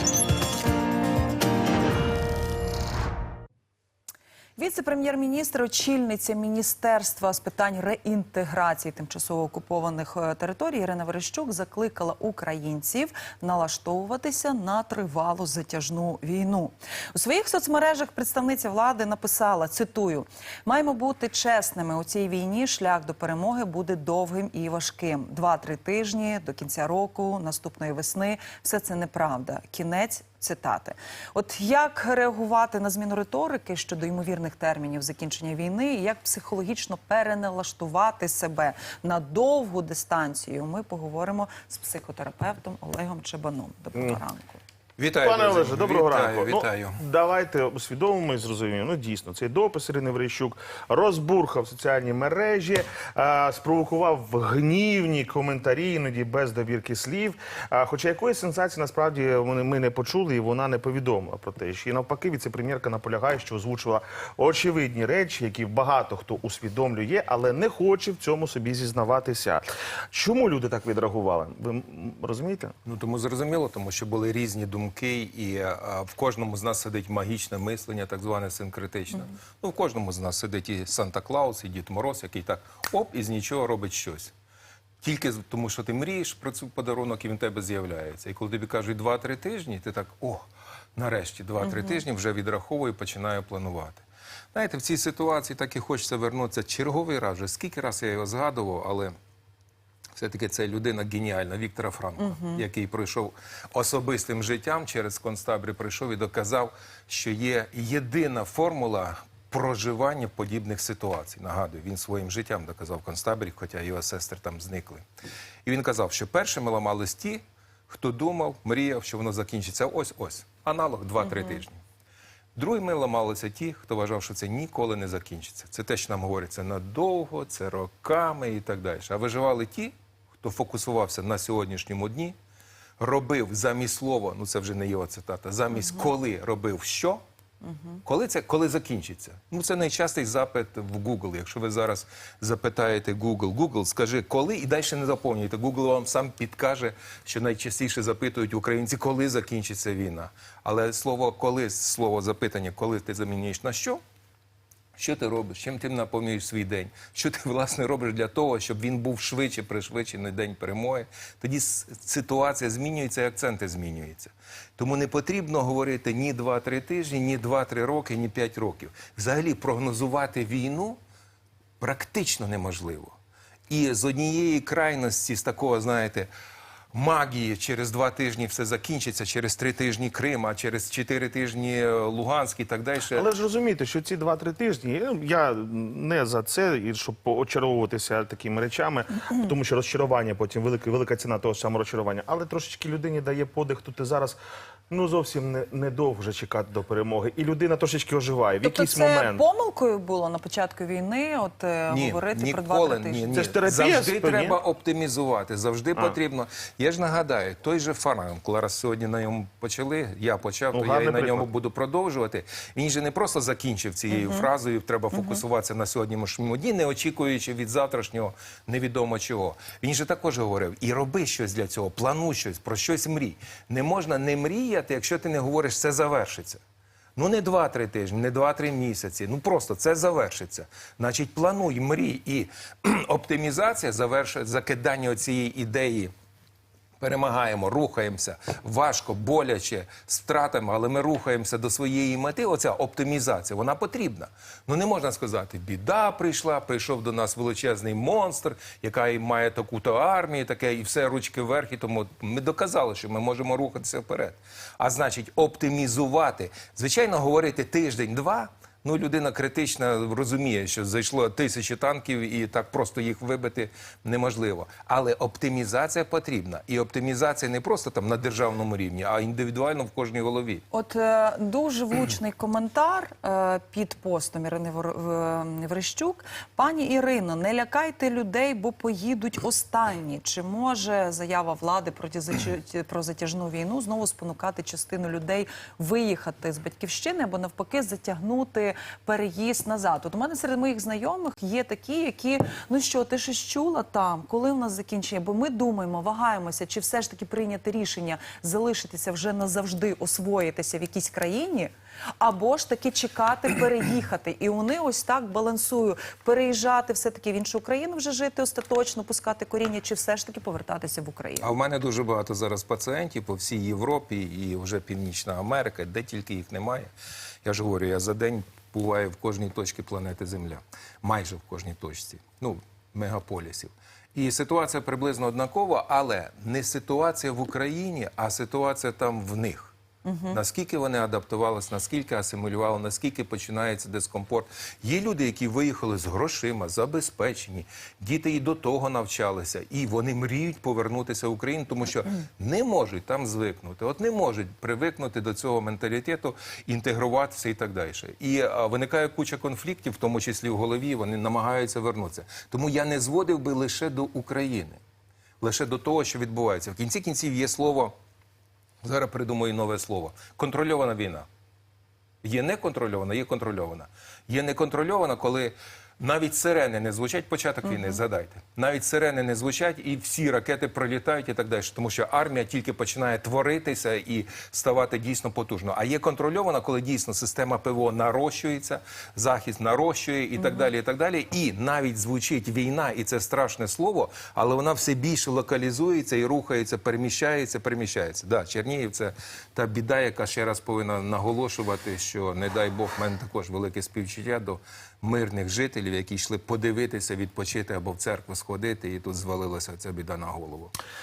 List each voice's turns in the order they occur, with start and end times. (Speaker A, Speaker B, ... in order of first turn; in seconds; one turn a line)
Speaker A: 4.6-44.6
Speaker B: 43.9-44.2
Speaker C: 45.0-47.0
Speaker B: 45.2-72.7
Speaker C: 72.8-84.3
Speaker C: 85.0-99.1
Speaker A: 91.6-92.0
Speaker C: 100.1-115.0
Speaker A: 102.2-102.6
Speaker C: 115.6-121.8
Speaker A: 121.2-121.6
Speaker C: 122.5-132.3
Speaker C: 133.0-137.2
Speaker A: 135.8-136.1
Speaker A: 137.6-138.0
Speaker C: 138.0-154.0
Speaker C: 155.0-171.0
Speaker C: 171.8-173.1
Speaker C: 173.7-176.3
Speaker C: 176.9-183.2
Speaker B: 183.1-194.4
Speaker B: 194.9-199.4
Speaker A: 198.6-203.4
Speaker C: 201.9-226.6
Speaker B: 203.3-204.6
Speaker B: 210.7-211.5
Speaker A: 214.1-214.5
Speaker A: 215.1-215.4
Speaker C: 227.2-236.1
Speaker C: 237.0-270.6
Speaker A: 270.7-311.5
Speaker C: 311.4-316.9
Speaker C: 317.4-329.7
Speaker A: 330.0-330.4
Speaker C: 330.3-354.8
Speaker C: 355.4-357.9
Speaker C: 358.8-361.2
Speaker C: 362.2-400.7
Speaker A: 367.6-368.0
Speaker A: 380.4-380.7